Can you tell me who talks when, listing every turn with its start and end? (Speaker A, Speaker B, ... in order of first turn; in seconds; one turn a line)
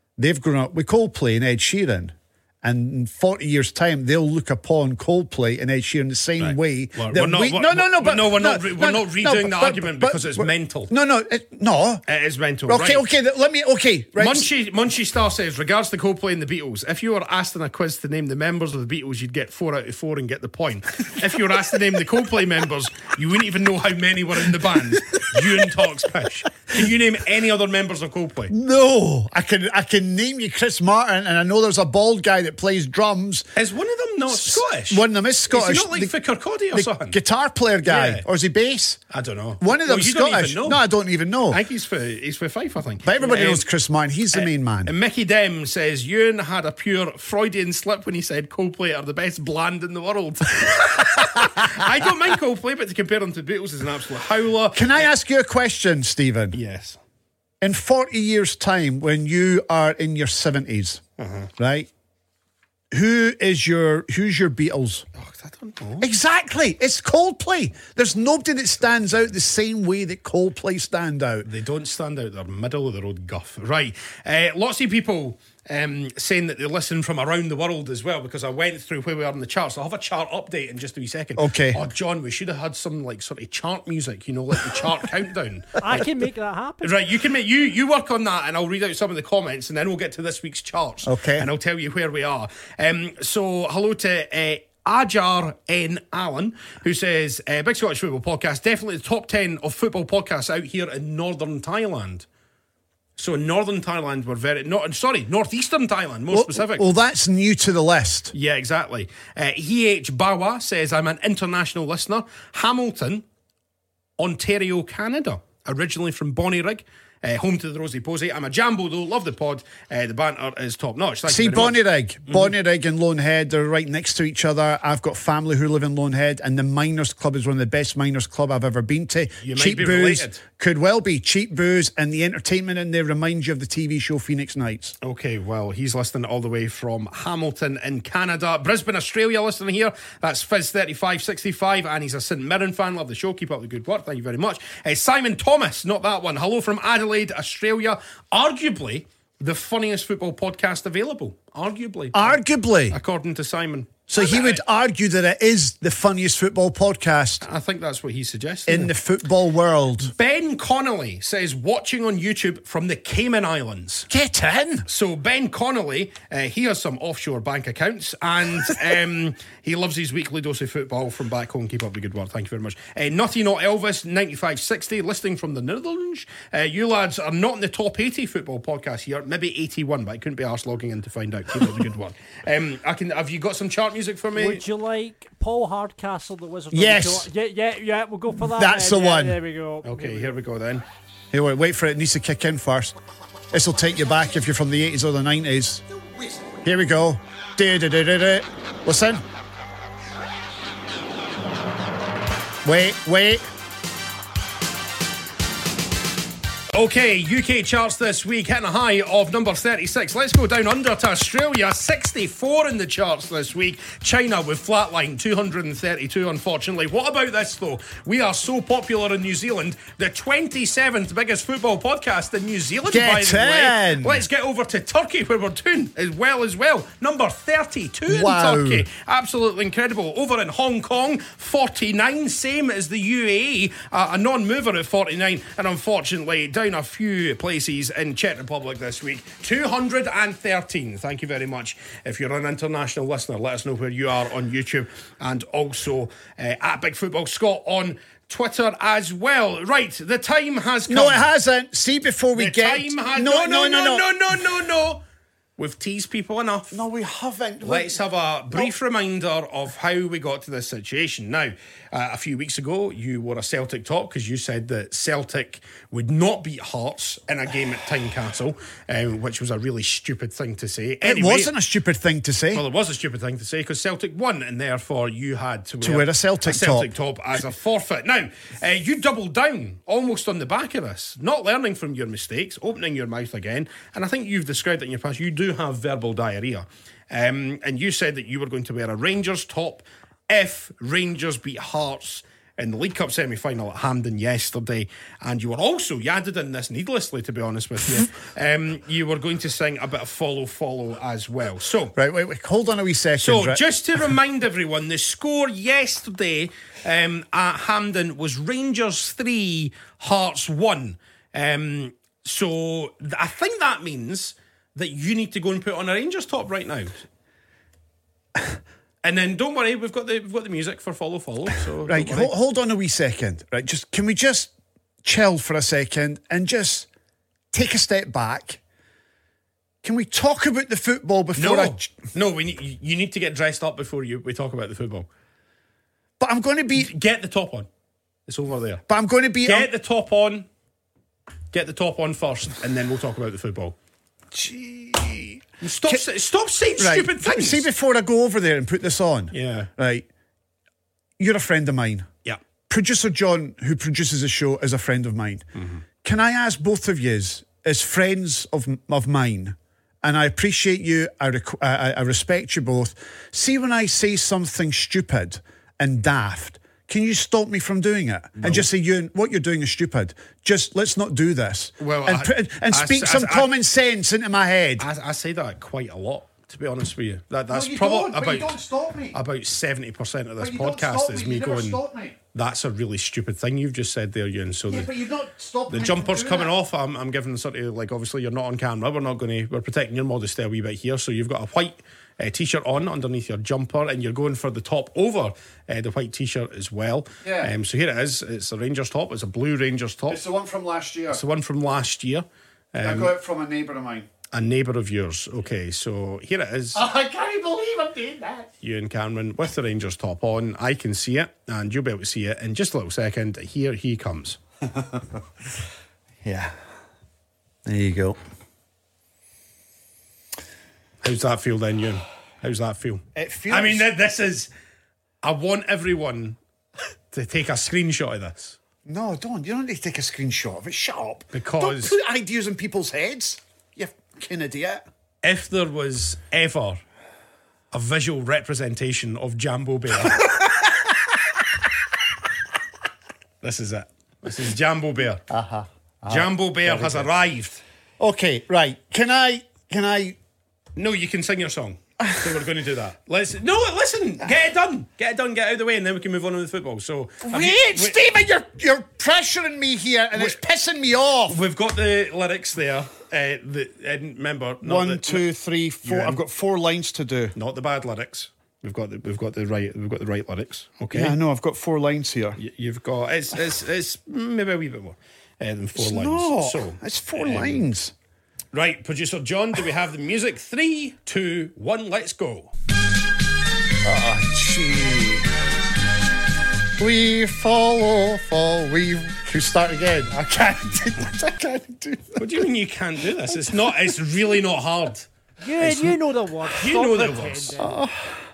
Speaker A: 0.2-12.0
Speaker B: 6.4-10.9
Speaker B: 12.1-13.0
Speaker A: 12.7-14.5
Speaker B: 14.2-28.5
Speaker A: 28.5-33.5
Speaker B: 33.5-37.2
Speaker A: 34.3-36.1
Speaker A: 36.7-39.0
Speaker B: 37.8-38.2
Speaker B: 39.1-40.8
Speaker A: 39.6-41.6
Speaker B: 41.5-43.7
Speaker A: 43.0-44.9
Speaker B: 44.3-55.1
Speaker A: 54.7-56.6
Speaker B: 56.5-57.0
Speaker A: 57.6-61.0
Speaker B: 61.2-61.5
Speaker A: 61.6-61.9
Speaker A: 62.9-65.1
Speaker B: 65.2-66.1
Speaker A: 66.0-71.5
Speaker B: 71.4-86.1
Speaker A: 81.3-81.8
Speaker C: 85.8-87.0
Speaker B: 86.8-102.3
Speaker A: 91.0-91.5
Speaker B: 103.2-106.9
Speaker A: 106.3-108.3
Speaker B: 108.3-113.2
Speaker B: 114.2-122.5
Speaker A: 121.3-134.9
Speaker B: 129.4-130.4
Speaker B: 135.0-152.4
Speaker A: 152.1-153.0
Speaker B: 152.9-154.6
Speaker A: 154.1-157.4
Speaker B: 157.4-158.9
Speaker A: 158.7-160.1
Speaker B: 160.0-164.1
Speaker A: 164.1-164.9
Speaker B: 164.9-184.6
Speaker C: 184.3-190.3
Speaker A: 186.7-187.3
Speaker A: 188.4-189.4
Speaker B: 189.8-190.8
Speaker A: 191.3-192.9
Speaker A: 193.5-195.8
Speaker A: 196.4-199.2
Speaker A: 202.6-203.5
Speaker B: 206.7-251.3
Speaker A: 222.9-224.2
Speaker A: 228.1-228.9
Speaker A: 250.9-254.1
Speaker B: 252.3-255.0
Speaker B: 255.6-256.8
Speaker A: 256.7-258.0
Speaker B: 257.6-271.5
Speaker A: 271.0-272.6
Speaker B: 272.5-301.9
Speaker A: 275.8-276.9
Speaker A: 301.9-303.6
Speaker B: 303.2-317.0
Speaker B: 319.0-322.3
Speaker A: 321.9-324.5
Speaker A: 325.0-326.9
Speaker A: 327.5-328.6
Speaker A: 329.8-331.9
Speaker B: 331.4-335.1
Speaker A: 336.2-336.9
Speaker B: 336.8-337.7
Speaker B: 338.3-338.8
Speaker A: 338.9-339.7
Speaker B: 339.4-340.5
Speaker B: 341.5-343.8
Speaker A: 344.3-346.0
Speaker B: 345.6-347.7
Speaker A: 346.8-350.1
Speaker B: 349.3-349.7
Speaker A: 351.2-352.1
Speaker A: 352.7-374.9
Speaker B: 355.6-355.8
Speaker B: 368.4-368.7
Speaker B: 371.8-373.5
Speaker B: 374.8-378.6
Speaker A: 377.5-379.2
Speaker B: 379.1-381.8
Speaker A: 380.4-382.1
Speaker B: 382.3-384.9
Speaker A: 384.7-386.5
Speaker B: 385.7-400.2
Speaker A: 397.2-397.5
Speaker A: 400.1-401.2
Speaker B: 401.1-403.1
Speaker A: 402.8-404.1
Speaker B: 404.3-406.8
Speaker A: 406.7-408.5
Speaker B: 408.6-414.4
Speaker A: 414.8-415.0
Speaker A: 416.2-416.5
Speaker A: 417.6-418.2
Speaker B: 421.0-424.5
Speaker A: 423.1-423.9
Speaker B: 425.2-426.4
Speaker B: 427.1-428.6
Speaker A: 428.9-434.8
Speaker B: 431.3-432.0
Speaker B: 435.2-436.8
Speaker B: 437.7-440.3
Speaker B: 443.4-445.2
Speaker A: 445.3-447.1
Speaker B: 446.1-447.6
Speaker A: 448.0-450.2
Speaker B: 450.8-458.0
Speaker A: 457.2-461.4
Speaker B: 461.3-465.2
Speaker A: 464.6-467.4
Speaker B: 465.8-466.2
Speaker B: 467.4-471.2
Speaker A: 470.9-472.4
Speaker B: 472.4-477.7
Speaker A: 475.8-477.9
Speaker B: 478.5-482.5
Speaker A: 483.8-485.3
Speaker A: 486.8-492.4
Speaker B: 492.2-495.1
Speaker A: 493.5-493.9
Speaker C: 495.4-497.8
Speaker B: 495.6-495.9
Speaker B: 496.6-497.6
Speaker A: 497.6-498.2